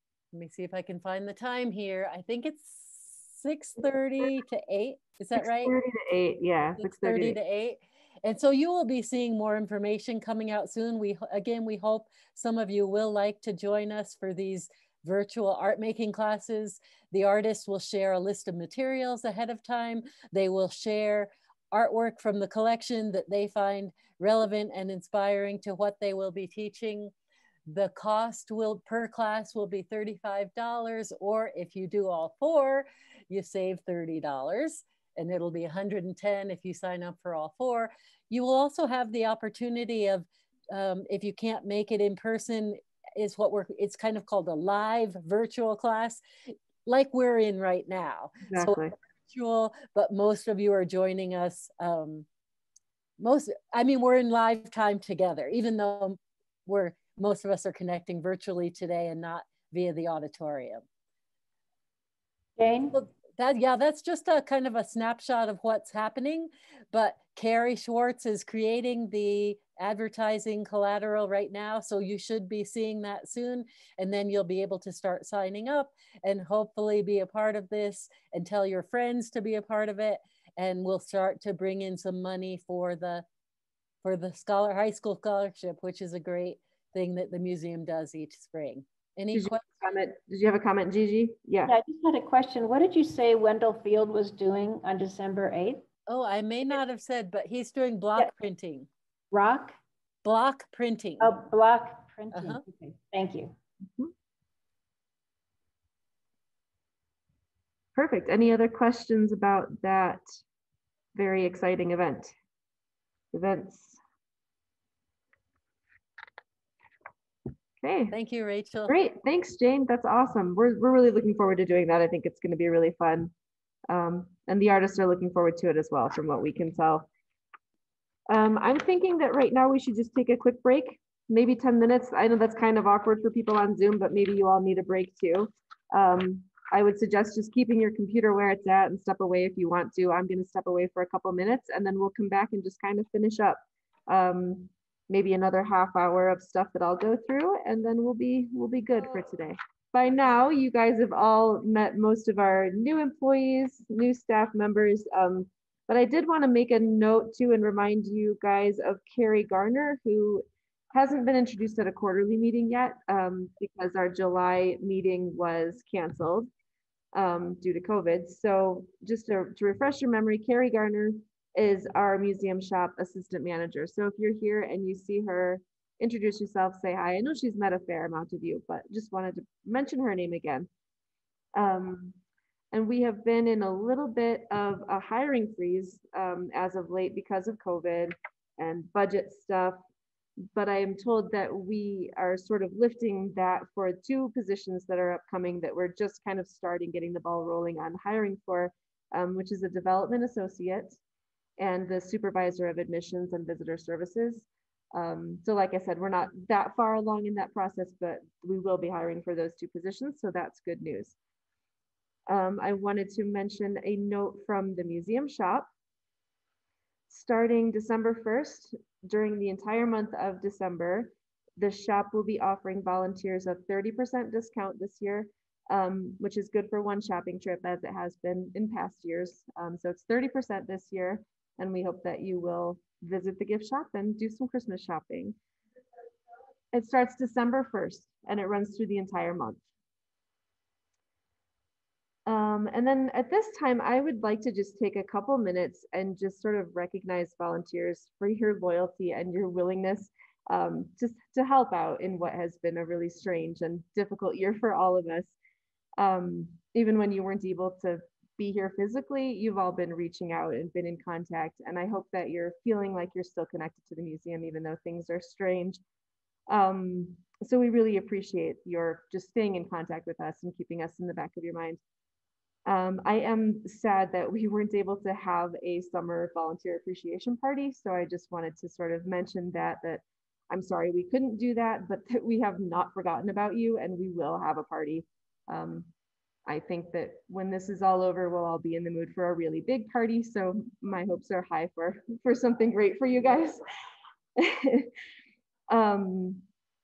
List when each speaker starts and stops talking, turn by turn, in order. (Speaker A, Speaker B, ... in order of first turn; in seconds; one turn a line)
Speaker A: 0.3-5.7
Speaker B: 5.3-7.4
Speaker A: 6.8-27.1
Speaker A: 27.7-46.2
Speaker A: 46.9-52.2
Speaker B: 48.5-48.9
Speaker A: 53.2-60.8
Speaker C: 62.6-63.0
Speaker A: 62.9-83.2
Speaker A: 84.0-89.6
Speaker B: 89.3-91.7
Speaker C: 91.7-95.8
Speaker A: 96.1-98.9
Speaker C: 99.3-99.8
Speaker A: 100.2-101.3
Speaker C: 101.2-103.5
Speaker A: 102.3-102.6
Speaker B: 107.9-110.2
Speaker B: 111.2-112.3
Speaker B: 113.3-114.0
Speaker B: 117.8-118.1
Speaker A: 118.1-119.0
Speaker B: 118.9-123.3
Speaker B: 123.9-127.1
Speaker B: 128.3-166.5
Speaker B: 167.1-180.7
Speaker B: 181.5-182.2
Speaker B: 182.7-189.8
Speaker B: 190.5-201.0
Speaker B: 201.6-211.2
Speaker B: 212.3-215.7
Speaker B: 217.1-235.3
Speaker B: 236.7-239.6
Speaker B: 242.2-255.3
Speaker B: 256.0-265.8
Speaker B: 266.5-271.8
Speaker B: 272.6-285.9
Speaker B: 286.5-293.6
Speaker B: 294.4-294.9
Speaker B: 295.7-296.4